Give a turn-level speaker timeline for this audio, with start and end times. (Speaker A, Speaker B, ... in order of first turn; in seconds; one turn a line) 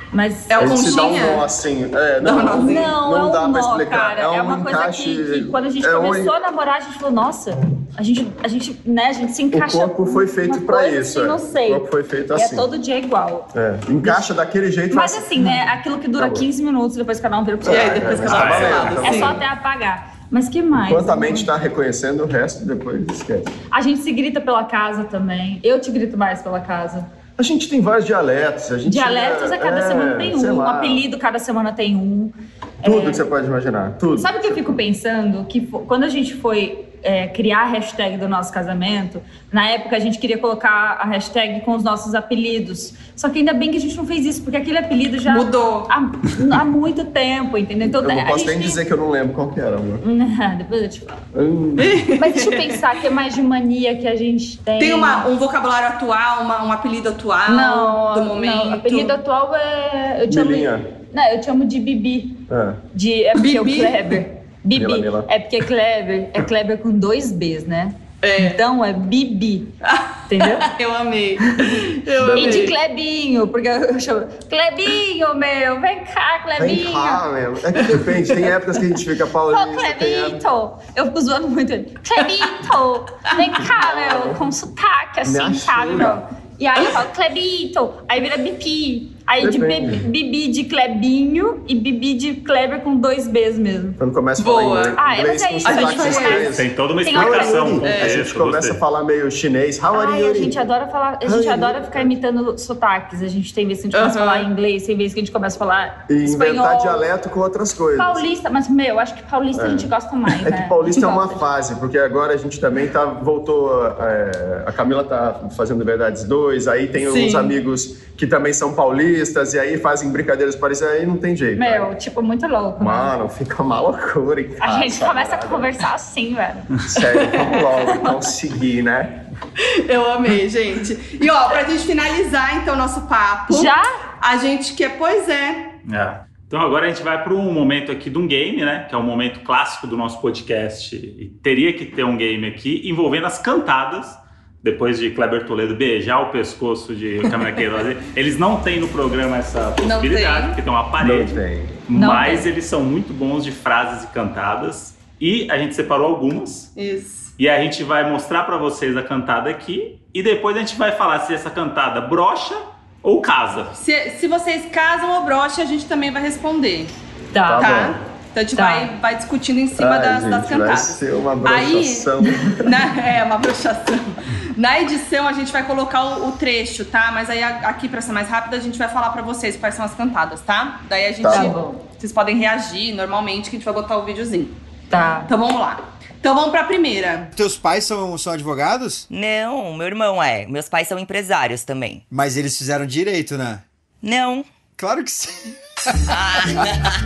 Speaker A: 0.1-0.9
Speaker B: 0.5-1.4
Speaker C: 0.6-6.3
Speaker B: 2.2-2.9
Speaker A: 2.5-13.5
Speaker C: 9.5-12.7
Speaker C: 13.5-16.4
Speaker A: 14.9-21.5
Speaker C: 17.6-19.4
Speaker B: 17.6-19.4
Speaker D: 18.3-19.0
Speaker C: 20.7-23.5
Speaker A: 23.7-27.1
Speaker C: 27.4-31.0
Speaker A: 28.8-33.2
Speaker C: 32.8-34.8
Speaker A: 34.2-48.8
Speaker B: 45.3-45.9
Speaker C: 47.8-50.0
Speaker A: 50.0-51.2
Speaker C: 51.3-52.0
Speaker B: 51.8-52.8
Speaker A: 52.2-55.3
Speaker B: 54.8-59.1
Speaker A: 57.5-69.7
Speaker C: 60.3-60.9
Speaker C: 62.5-62.8
Speaker B: 63.4-64.2
Speaker C: 64.7-65.3
Speaker B: 68.2-68.6
Speaker B: 69.8-72.7
Speaker A: 70.3-70.7
Speaker C: 72.2-72.7
Speaker A: 72.3-77.2
Speaker C: 76.6-80.4
Speaker A: 79.5-94.0
Speaker C: 83.6-84.4
Speaker C: 85.2-86.2
Speaker C: 89.4-90.1
Speaker C: 94.0-100.5
Speaker B: 94.4-95.0
Speaker A: 95.0-97.8
Speaker B: 95.6-96.5
Speaker D: 96.5-98.8
Speaker B: 97.8-98.2
Speaker A: 99.9-107.0
Speaker C: 101.2-102.1
Speaker B: 103.9-104.5
Speaker C: 106.1-108.2
Speaker A: 108.0-111.4
Speaker C: 109.5-121.9
Speaker B: 117.0-117.5
Speaker A: 121.5-123.1
Speaker C: 122.8-125.7
Speaker A: 124.6-126.7
Speaker C: 126.8-129.2
Speaker B: 127.2-127.6
Speaker B: 129.6-135.7
Speaker A: 133.5-133.9
Speaker D: 135.8-156.7
Speaker B: 149.8-150.6
Speaker C: 151.0-151.8
Speaker A: 151.9-152.5
Speaker B: 156.8-157.3
Speaker D: 157.4-163.8
Speaker B: 163.8-166.9
Speaker A: 167.3-167.7
Speaker C: 167.4-168.0
Speaker B: 167.6-184.5
Speaker A: 168.5-168.9
Speaker C: 169.8-172.8
Speaker C: 181.2-181.5
Speaker A: 181.3-181.8
Speaker A: 184.9-185.3
Speaker B: 185.3-187.3
Speaker E: 187.3-189.1
Speaker F: 189.1-192.0
Speaker E: 192.1-193.6
Speaker F: 194.0-194.4
Speaker E: 194.8-195.5
Speaker F: 196.1-196.5